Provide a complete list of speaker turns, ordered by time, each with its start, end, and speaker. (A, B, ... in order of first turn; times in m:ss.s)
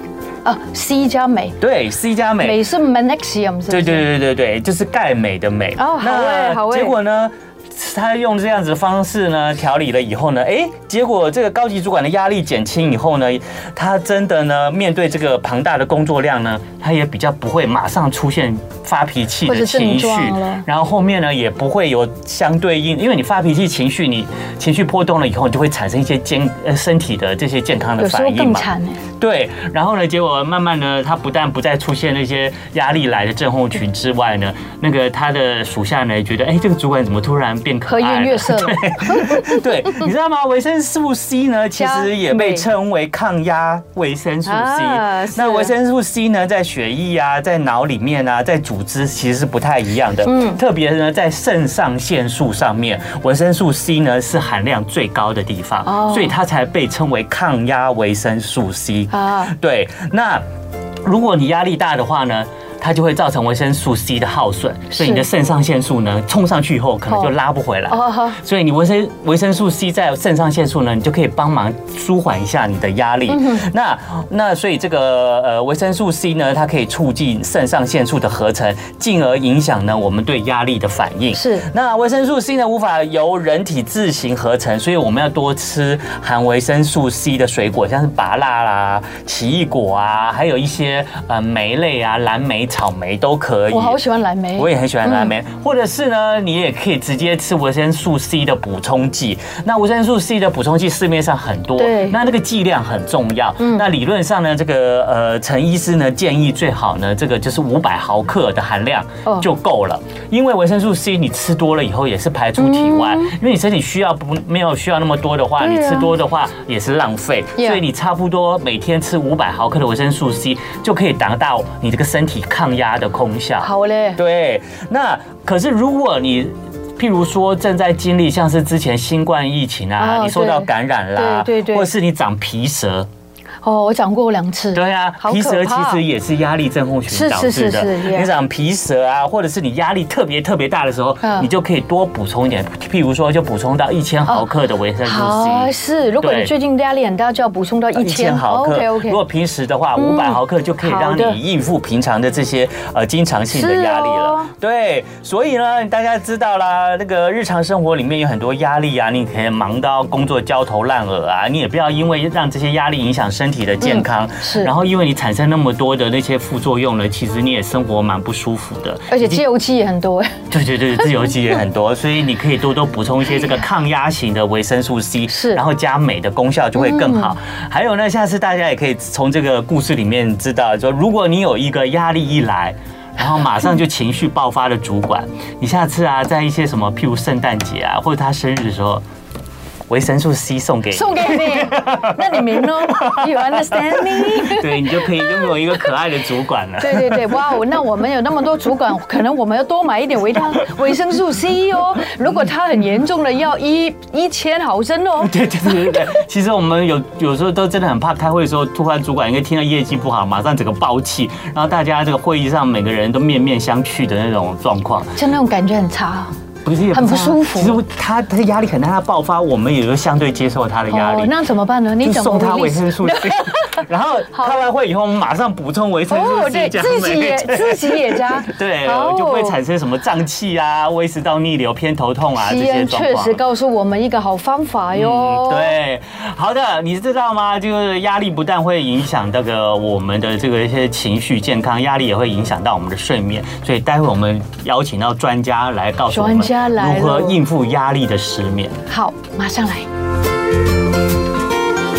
0:00.4-0:01.6 A
0:01.6-0:02.6 B
0:02.4-0:04.0 A
0:03.7-1:00.4 B
0:05.8-0:07.0 A
0:19.5-0:20.6 A
0:28.0-0:29.0 A
0:37.9-0:40.1 A
0:41.8-0:42.7 A
0:44.5-0:45.7 A
0:50.2-0:50.6 A
0:55.8-0:56.3 A
0:59.1-0:59.5 A
1:01.0-1:34.0 B
1:04.9-1:05.3 A
1:07.9-1:08.4 A
1:13.3-1:13.7 A
1:21.3-1:21.7 A
1:33.7-1:35.3 A
1:34.6-2:13.1 B
1:41.8-1:42.2 A
1:43.6-1:43.9 A
1:52.6-1:53.3 A
1:55.6-1:56.1 A
1:57.6-1:57.8 A
2:03.6-2:04.2 A
2:10.0-2:11.9 A
2:13.6-2:16.0 A
2:14.7-2:26.5 B
2:17.1-2:18.3 A
2:21.2-2:21.5 A
2:25.0-2:29.2 A
2:28.0-2:49.4 B
2:30.0-2:31.4 A
2:33.5-2:34.5 A
2:43.8-2:44.7 A
2:49.1-2:50.4 A
2:50.5-3:09.0 B
2:55.3-2:55.6 A
2:56.8-2:57.3 A
3:09.9-3:17.5 B
3:10.9-3:15.9 A
3:16.8-3:25.7 A
3:25.2-3:35.2 B
3:35.2-3:36.3 A
3:36.6-3:41.3 B
3:36.9-3:37.8 A
3:40.9-3:43.8 A
3:42.0-3:53.4 B
3:44.3-3:44.6 A
3:46.1-3:49.6 A
3:52.4-3:55.7 A
3:54.9-4:08.8 B
4:06.1-4:07.4 A
4:08.9-4:09.9 A